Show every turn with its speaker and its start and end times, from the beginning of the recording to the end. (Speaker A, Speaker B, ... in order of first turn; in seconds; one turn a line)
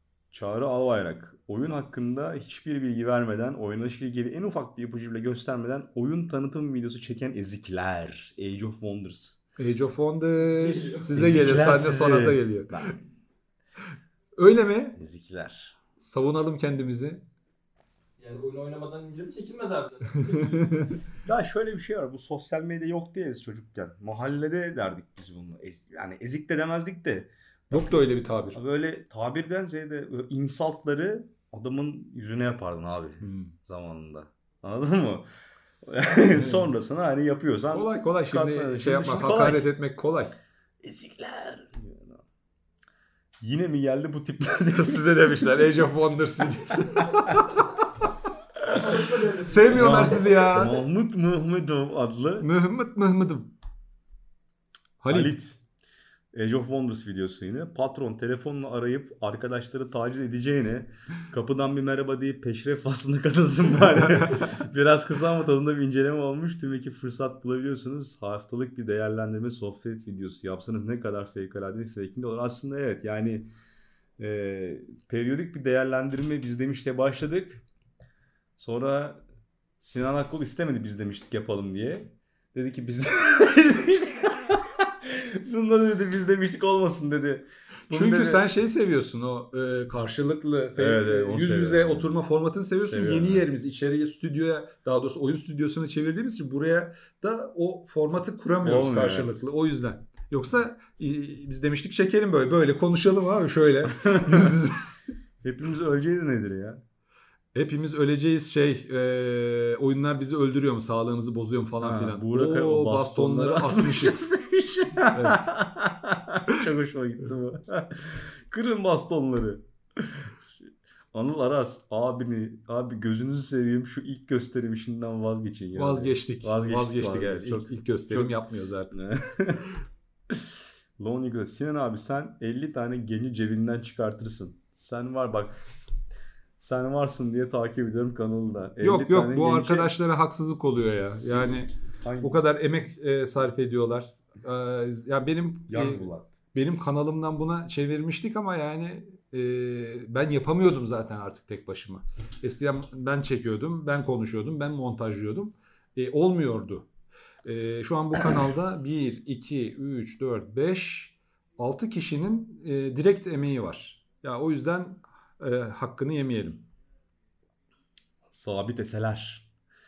Speaker A: 0.3-9.4
Speaker B: 9.6-12.8
Speaker C: 10.4-11.1
Speaker A: 11.1-13.0
Speaker B: 14.4-15.0
Speaker A: 15.0-15.8
Speaker B: 16.0-17.2
Speaker C: 18.2-20.8
Speaker B: 20.6-20.9
Speaker A: 21.2-27.9
Speaker B: 27.7-28.6
Speaker A: 28.5-35.3
Speaker B: 33.2-33.5
Speaker A: 35.8-39.6
Speaker B: 36.3-36.7
Speaker B: 37.7-40.4
Speaker A: 40.8-42.2
Speaker A: 43.4-45.9
Speaker B: 44.7-47.5
Speaker B: 48.6-50.8
Speaker C: 49.0-49.5
Speaker A: 49.7-52.5
Speaker B: 52.4-53.5
Speaker B: 55.0-55.4
Speaker A: 55.1-55.6
Speaker A: 56.3-73.5
Speaker B: 63.9-64.5
Speaker A: 74.2-77.6
Speaker A: 78.6-79.2
Speaker A: 79.8-88.4
Speaker B: 87.9-104.9
Speaker A: 90.8-92.1
Speaker A: 92.8-93.4
Speaker A: 98.6-99.3
Speaker A: 104.0-104.5
Speaker A: 105.4-106.8
Speaker B: 107.5-114.2
Speaker A: 111.8-120.3
Speaker B: 115.1-115.5
Speaker A: 121.1-128.4
Speaker B: 125.7-128.9
Speaker A: 128.9-129.8
Speaker A: 131.0-135.6
Speaker A: 136.6-139.9
Speaker B: 138.8-156.9
Speaker A: 142.0-142.4
Speaker A: 145.7-146.3
Speaker B: 157.4-166.6
Speaker A: 168.3-169.5